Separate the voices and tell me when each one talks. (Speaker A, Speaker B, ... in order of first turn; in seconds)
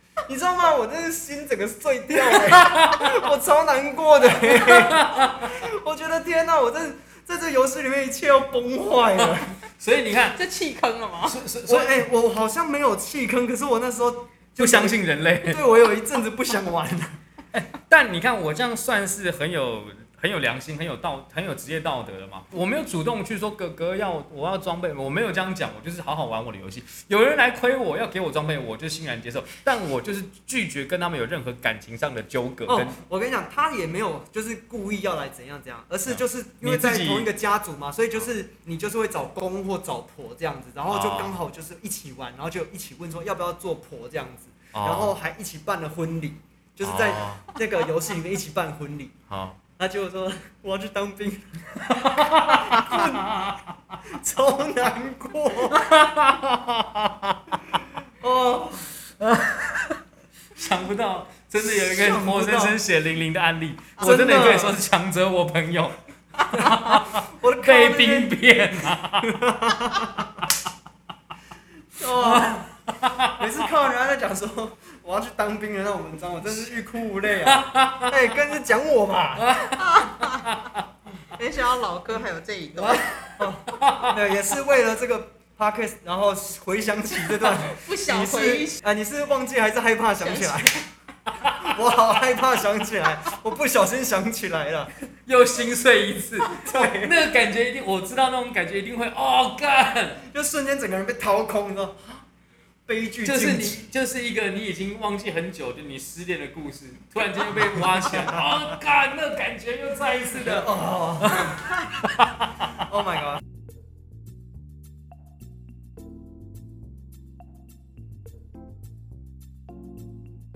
Speaker A: 0.2-9.6, 11.6-17.2, 32.6-49.1, 49.8-53.4, 54.0-55.9, 58.2-59.0, 61.6-62.8, 64.0-64.8, 66.5-68.5, 69.2-70.5, 72.0-72.7, 73.3-79.6, 82.8-90.8, 91.5-94.9, 96.5-97.2, 100.3-102.2, 102.9-103.8, 110.3-111.6, 112.7-113.4
Speaker B: 2.3-3.2, 4.3-5.6, 9.8-10.4, 11.2-12.1, 14.6-15.7, 17.5-33.0, 36.1-37.3, 40.9-41.3, 44.7-45.1, 46.8-47.5, 49.3-49.6, 51.9-54.0, 55.7-57.6, 59.2-60.0, 60.5-69.5, 72.1-73.5, 77.5-78.3, 79.4-80.8, 82.8-83.2, 83.7-84.2, 91.3-91.8, 95.2-100.2, 103.2-112.7
Speaker C: 10.3-11.4, 79.6-80.5, 81.3-83.3, 87.4-88.8, 90.2-90.9